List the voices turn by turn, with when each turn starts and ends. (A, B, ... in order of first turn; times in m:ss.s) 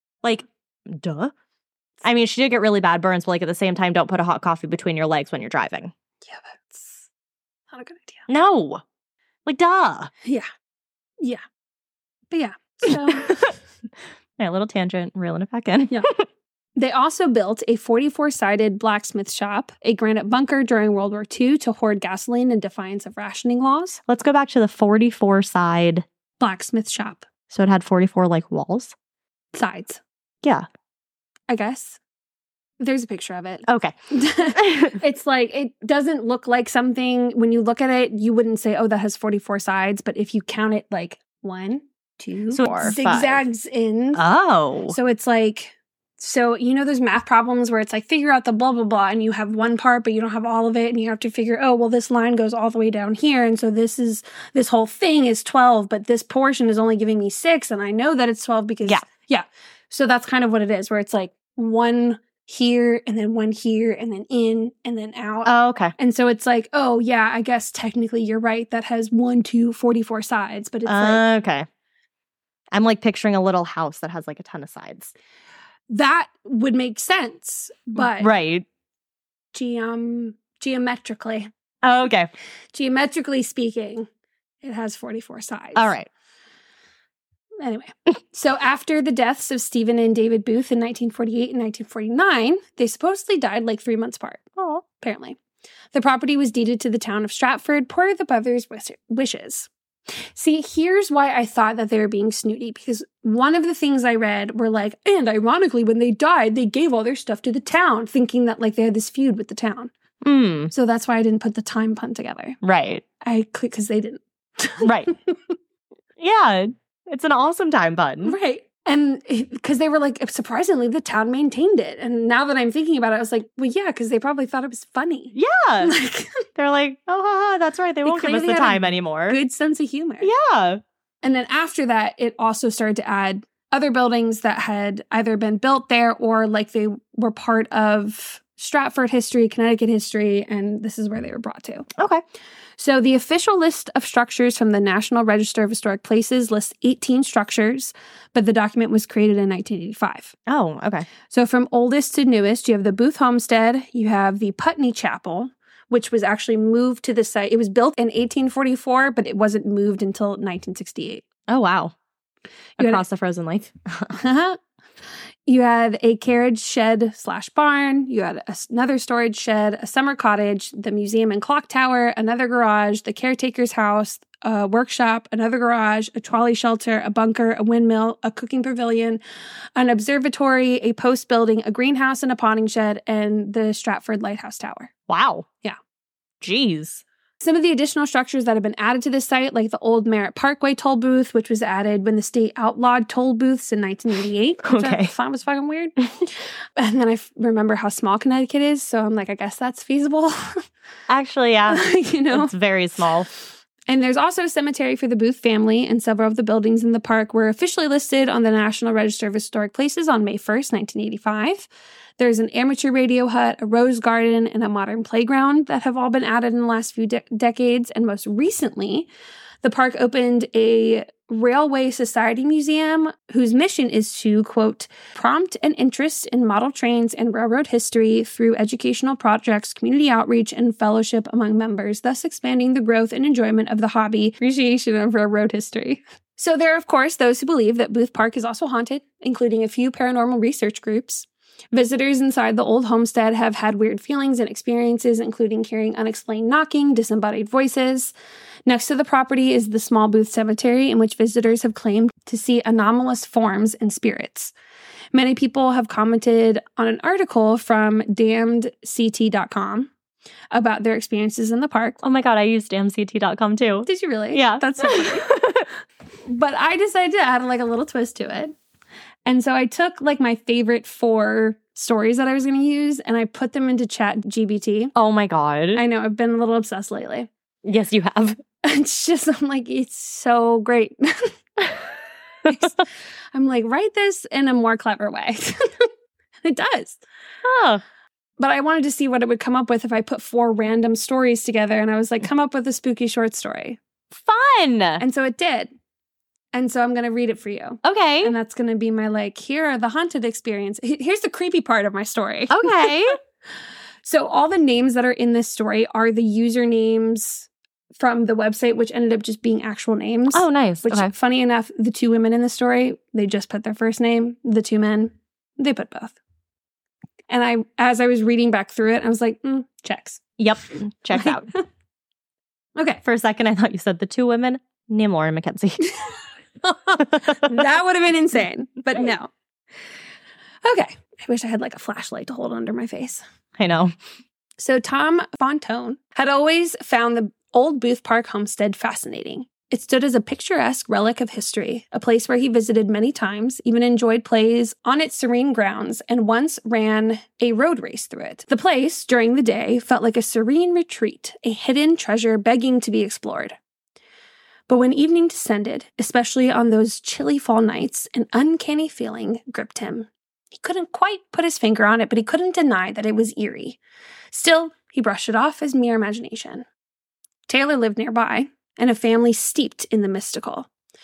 0:00.2-0:01.3 A
0:02.0-0:05.9 A
0:06.2-0:07.1 B
0:07.7-0:08.3 B
0:08.3-0:08.8 A
0:09.5-0:10.1 A
0:12.3-0:13.5 B
0:12.9-0:13.5 A
0:14.4-0:16.2 A
0:16.8-0:24.0 B
0:24.1-0:26.0 A
0:26.4-0:27.3 B
0:27.5-0:28.9 A
0:29.5-0:30.0 B
0:31.5-0:32.0 B
0:32.8-0:44.2 B
0:33.7-0:33.9 A
0:34.5-0:35.0 A
0:42.5-0:43.4 A
0:44.2-0:45.0 A
0:44.9-1:11.2 B
1:05.4-1:05.9 A
1:10.9-1:11.7 A
1:12.7-1:15.1 A
1:15.9-1:18.3 B
1:18.0-1:18.6 A
1:19.5-1:21.5 B
1:21.8-1:22.3 A
1:22.7-1:24.1 B
1:24.6-1:25.9 B
1:25.8-1:26.1 A
1:27.6-1:35.4 B
1:34.6-1:34.8 A
1:35.9-1:39.7 B
1:40.4-1:49.9 B
1:50.2-1:50.7 A
1:50.7-1:52.6 B
1:52.6-1:53.0 A
1:53.2-1:55.4 B
1:54.8-1:55.1 A
1:56.2-1:58.4 A
1:58.2-2:06.4 B
2:05.3-2:06.0 A
2:06.6-2:09.4 A
2:08.0-2:10.3 B
2:10.2-2:10.8 A
2:11.2-2:21.9 B
2:22.0-2:22.2 A
2:22.8-2:30.4 B
2:30.5-2:31.1 A
2:31.3-2:41.2 B
2:41.5-2:41.9 A
2:42.8-2:44.2 A
2:44.2-2:44.6 B
2:45.5-2:59.2 B
2:59.8-3:04.9 B
3:05.1-3:05.5 A
3:06.4-3:07.0 A
3:07.4-3:20.6 B
3:14.6-3:15.1 A
3:21.1-3:23.3 A
3:21.7-3:22.5 B
3:23.9-3:39.1 B
3:39.6-4:08.1 B
4:08.7-4:14.5 B
4:15.1-4:19.9 B
4:20.5-4:22.0 B
4:22.0-4:25.7 A
4:23.9-4:25.3 B
4:26.2-4:28.5 B
4:29.3-4:34.9 B
4:35.0-4:35.8 A
4:35.8-4:37.3 B
4:37.6-4:38.4 A
4:38.6-4:41.3 B
4:42.5-4:45.9 B
4:46.4-4:47.0 B
4:47.4-4:47.8 A
4:48.4-4:53.8 B
4:54.1-4:55.0 A
4:55.0-4:55.7 B
4:56.5-5:03.1 B
4:57.8-4:58.4 A
5:02.5-5:03.2 A
5:04.0-5:16.2 B
5:10.3-5:11.1 A
5:17.3-5:20.2 B
5:20.4-5:21.5 A
5:21.1-5:21.6 B
5:22.8-5:23.0 B
5:23.0-5:25.9 A
5:26.6-5:29.3 B
5:27.0-5:27.6 A
5:30.6-5:33.2 B
5:33.6-5:33.9 A
5:34.6-5:53.6 B
5:54.7-6:03.8 B
6:04.3-6:06.6 B
6:07.5-6:10.7 B